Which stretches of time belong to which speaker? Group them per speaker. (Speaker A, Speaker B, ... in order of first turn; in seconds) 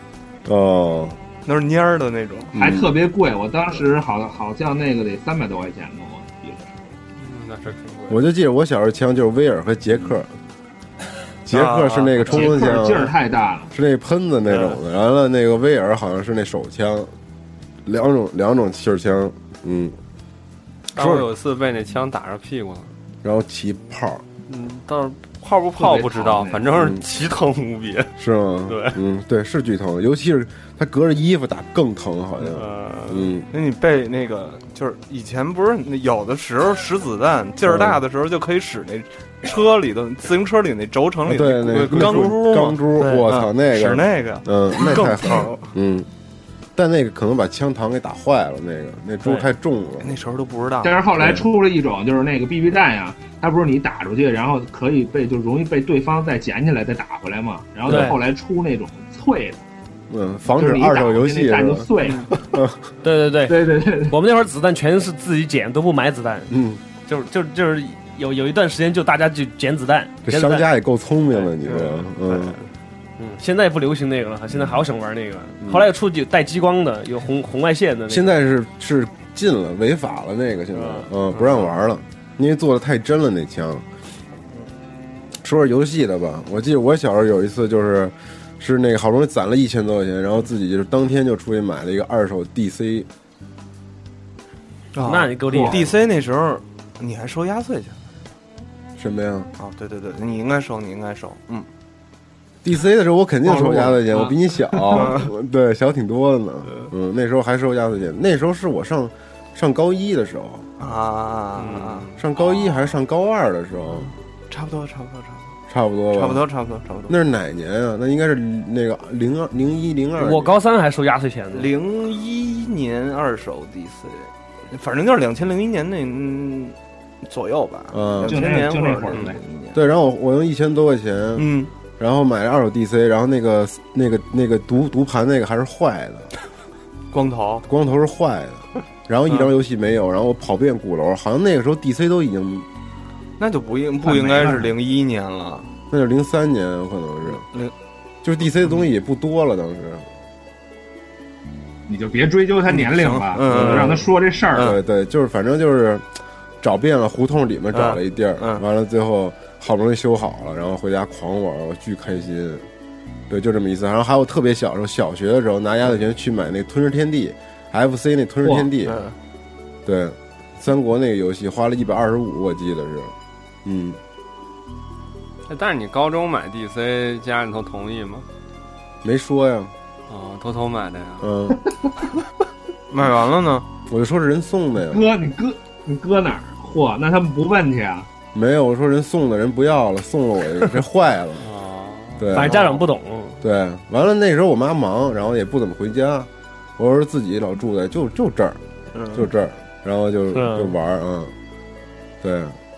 Speaker A: 0.5-1.2, 2.5-2.9, 8.1-10.3, 11.5-13.1, 13.7-17.1, 17.9-19.9, 21.0-21.3, 23.2-24.2, 26.7-27.0, 28.2-33.5, 37.7-38.0, 41.3-46.1, 46.8-50.1, 51.2-51.5, 60.1-62.8, 66.5-66.8, 70.2-72.6, 75.6-75.9, 78.1-83.9, 85.4-93.1, 99.0-99.5, 102.6-110.7, 112.2-114.1, 115.7-116.4, 117.1-120.6, 127.9-128.4, 129.7-131.5, 132.0-136.3, 137.7-142.7, 145.9-147.5, 148.2-150.1, 153.5-153.8, 154.6-156.1, 156.6-162.7, 163.3-169.0, 169.8-173.1, 173.7-174.0, 179.0-179.7, 181.2-181.6, 183.9-185.1, 188.3-191.5, 192.2-192.7, 193.4-198.6, 199.1-201.3, 202.2-202.6
Speaker B: 1.5-2.5, 11.5-12.5, 33.5-45.6, 50.0-51.0, 95.0-98.0, 99.6-101.7, 104.9-105.3, 110.8-112.1, 114.5-115.5, 116.1-117.2, 121.5-129.8, 131.4-131.7, 137.1-137.7, 143.4-145.7, 147.3-147.7, 152.7-154.8, 157.7-158.6, 168.8-169.2, 182.9-183.7, 198.9-199.3
Speaker C: 2.5-6.9, 12.3-13.7, 25.8-26.6, 50.8-59.6, 60.5-62.3, 63.5-64.2, 95.5-95.8, 103.5-104.3, 128.2-129.4, 144.0-144.7, 151.9-154.8, 184.9-188.1
Speaker D: 7.2-8.2, 20.9-22.9, 24.5-28.1, 28.7-29.0, 32.4-33.3, 111.6-112.2, 175.5-178.2, 180.1-181.3, 191.4-192.4
Speaker E: 57.9-58.2, 63.0-66.5, 67.1-70.7, 73.2-78.4, 80.7-81.1, 95.0-95.9, 120.2-121.7, 192.3-193.4, 200.3-200.8